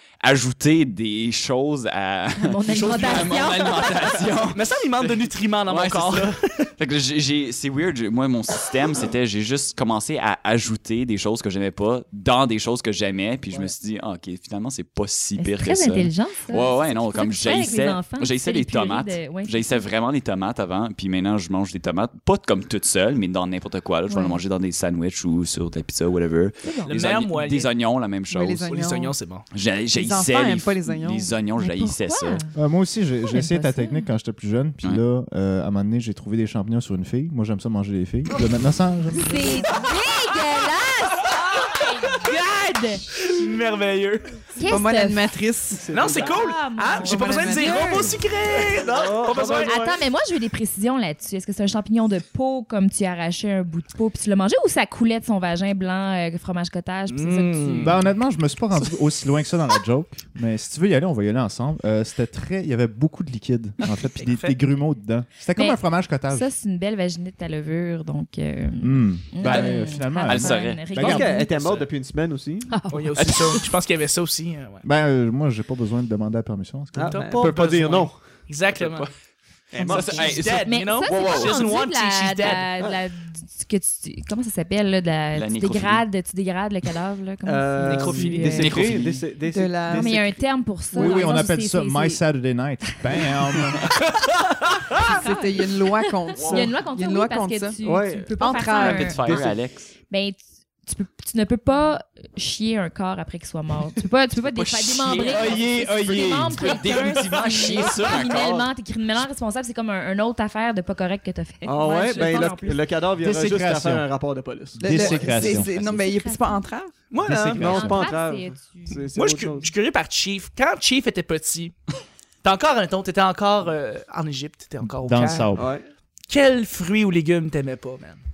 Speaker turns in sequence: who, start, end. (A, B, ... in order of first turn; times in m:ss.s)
0:00.2-0:28.7 A
0:02.4-0:04.1 B
0:02.7-0:06.7 C
0:15.4-0:19.9 B
0:24.1-0:24.4 B
0:26.6-0:27.0 B
0:26.9-0:27.7 C
0:28.3-0:29.2 D
0:28.7-0:29.5 C
0:29.5-0:32.4 A
0:29.9-0:31.4 D
0:31.6-0:32.5 B
0:32.5-0:39.6 E
0:33.2-0:34.1 B
0:39.2-0:43.1 B
0:43.2-0:44.3 C
0:44.6-0:45.3 B
0:44.6-0:45.9 D
0:45.7-0:46.4 F
0:45.9-0:49.8 C
0:46.1-0:48.1 B
0:47.0-0:48.2 D
0:48.7-0:50.0 F
0:49.7-0:58.1 B
0:57.1-0:57.9 C
0:57.8-1:06.5 E
1:04.2-1:04.6 C
1:05.6-1:11.5 B
1:08.8-1:11.3 E
1:09.4-1:11.0 A
1:10.9-1:12.7 F
1:12.7-1:13.7 B
1:12.9-1:14.9 C
1:14.8-1:17.2 E
1:16.9-1:18.2 F
1:17.1-1:19.1 C
1:18.7-1:19.1 A
1:19.7-1:20.4 F
1:19.8-1:21.7 A
1:19.8-1:28.8 B
1:20.0-1:22.7 C
1:25.3-1:26.0 A
1:27.4-1:30.4 F
1:27.8-1:29.0 C
1:28.4-1:29.2 A
1:29.5-1:30.4 D
1:29.9-1:32.2 B
1:31.0-1:33.9 E
1:35.1-1:39.5 B
1:35.1-1:39.4 D
1:36.4-1:36.8 A
1:37.8-1:38.3 F
1:38.8-1:39.9 A
1:39.2-1:39.6 F
1:40.1-1:52.8 B
1:44.4-1:48.7 A
1:45.2-1:47.4 E
1:51.6-1:54.9 F
1:53.2-1:54.1 E
1:54.8-1:55.7 E
1:54.8-1:56.9 D
1:54.9-1:56.7 B
1:55.0-1:56.1 A
1:57.1-1:57.9 C
1:57.2-1:58.0 E
1:57.3-1:59.7 F
1:57.6-1:59.1 B
1:59.2-2:01.8 C
2:02.4-2:05.6 C
2:04.8-2:05.7 E
2:05.5-2:05.8 F
2:06.3-2:08.2 C